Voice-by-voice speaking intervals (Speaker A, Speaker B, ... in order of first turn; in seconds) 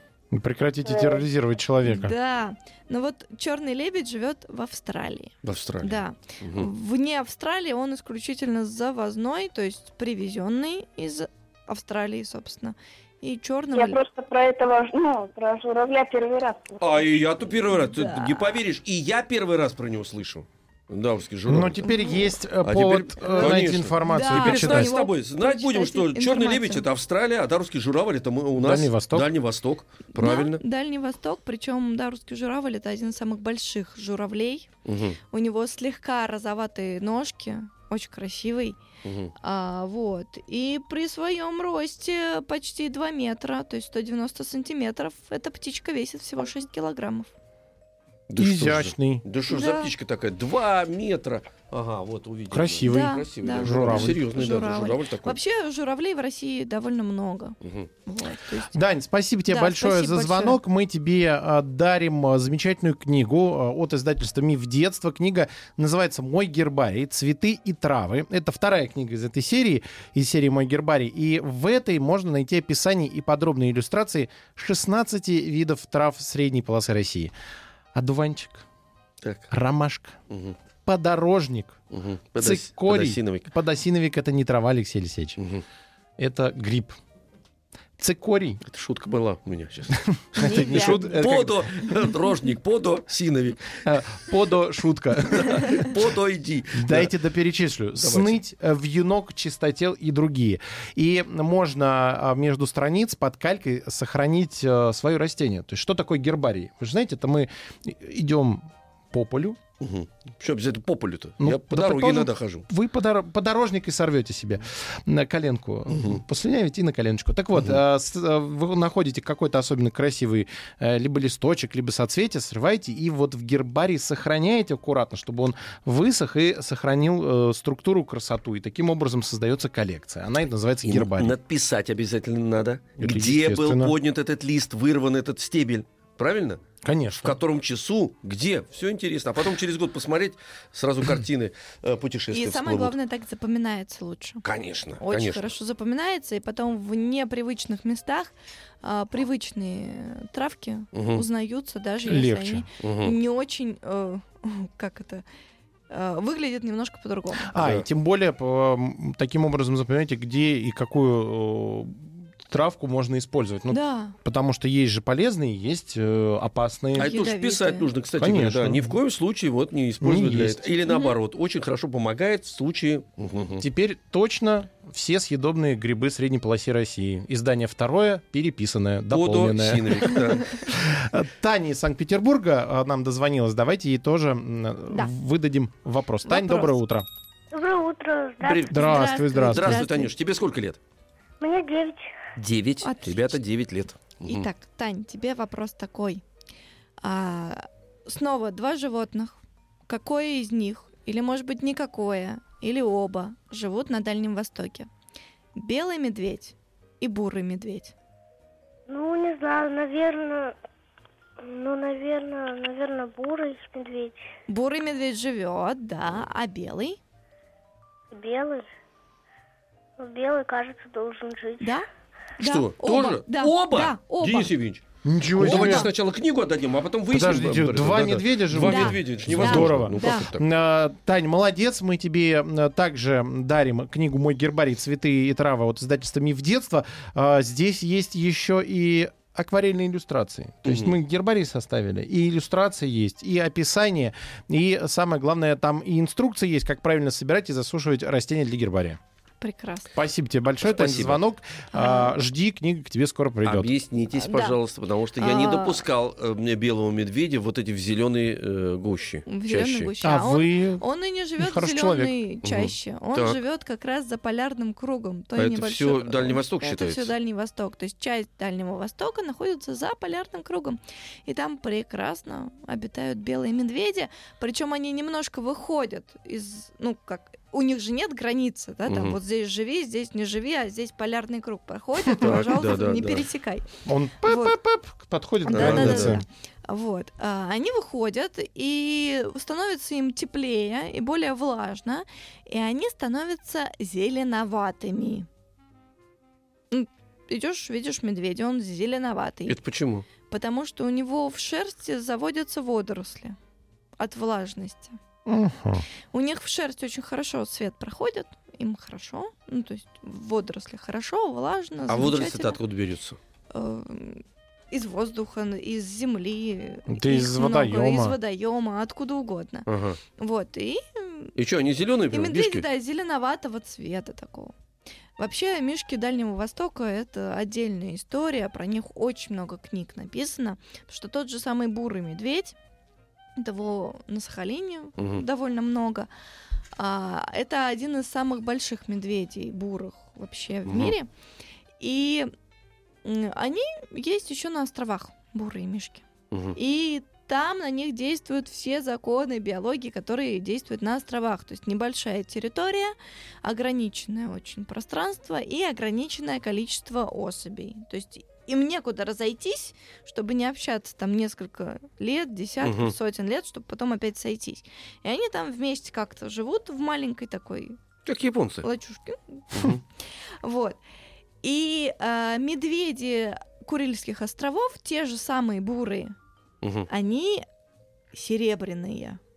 Speaker A: 0.3-2.1, 21.5-24.9, 28.6-29.3, 48.4-49.2, 52.5-54.2, 58.7-77.3, 77.9-78.6, 79.5-80.2, 80.8-81.8, 82.4-85.4, 86.2-87.0, 88.0-88.6, 89.9-92.0, 93.8-96.0, 96.7-109.6, 111.4-131.4, 133.0-133.9, 136.8-137.4, 152.0-152.7, 157.4-167.1, 168.2-168.9, 170.0-170.7, 173.6-187.1, 188.7-189.8, 225.0-225.9, 227.1-249.0, 249.9-253.7, 260.0-260.8, 261.4-262.1, 283.9-286.2, 305.2-305.9, 316.9-318.2
Speaker B: 1.8-14.0, 17.7-18.6, 21.8-22.3, 23.3-26.9, 30.1-34.7, 35.3-38.8, 39.4-47.3, 49.5-49.9, 52.8-58.8, 59.5-60.6, 90.4-91.2, 142.3-144.4, 145.0-155.2, 155.9-157.5, 163.7-164.2, 167.0-167.9, 170.9-171.1, 186.2-186.8, 188.7-190.1, 192.8-193.4, 194.2-196.2, 197.0-204.9, 205.6-207.9, 214.5-217.0, 221.6-221.9, 222.4-224.5, 225.4-225.9, 228.6-230.3, 249.4-249.9, 251.7-252.1, 254.1-254.6, 255.2-255.8, 259.2-283.6, 284.2-284.6, 285.4-295.3, 296.7-299.6, 300.3-303.4, 304.0-305.0, 306.1-312.6, 313.5-321.3, 322.1-324.5, 325.2-332.6, 333.4-336.1, 336.8-341.1, 341.8-342.3, 343.0-346.0, 346.6-367.8, 368.6-369.8, 370.4-370.8, 371.4-376.1, 376.9-377.4, 378.1-379.2
Speaker C: 5.4-6.7, 16.8-21.9, 22.6-30.6, 34.8-35.2, 39.0-39.3, 48.3-55.4, 57.6-57.9, 79.2-79.5, 80.3-80.6, 81.9-83.5, 85.4-85.6, 88.6-93.9, 95.3-97.1, 98.0-98.4, 109.8-112.7, 130.8-136.6, 137.2-142.9, 144.4-145.5, 150.9-151.2, 152.8-153.2, 157.6-157.9, 166.9-173.6, 179.1-180.8, 188.4-188.8, 189.4-190.8, 192.4-194.5, 222.4-230.4, 240.6-240.9, 250.6-251.2, 253.4-259.9, 262.4-263.4, 265.4-267.1, 278.9-279.2, 282.2-283.2, 285.5-286.2, 299.5-300.1, 311.9-313.2, 319.7-320.0, 321.4-322.6, 335.0-335.2, 340.7-340.9, 346.3-346.6, 362.6-362.9, 368.1-368.6, 369.5-369.8, 376.6-376.9
Speaker D: 13.8-16.1, 187.5-189.0, 191.4-192.1, 208.9-210.6, 211.4-214.3, 218.1-218.7, 220.0-221.8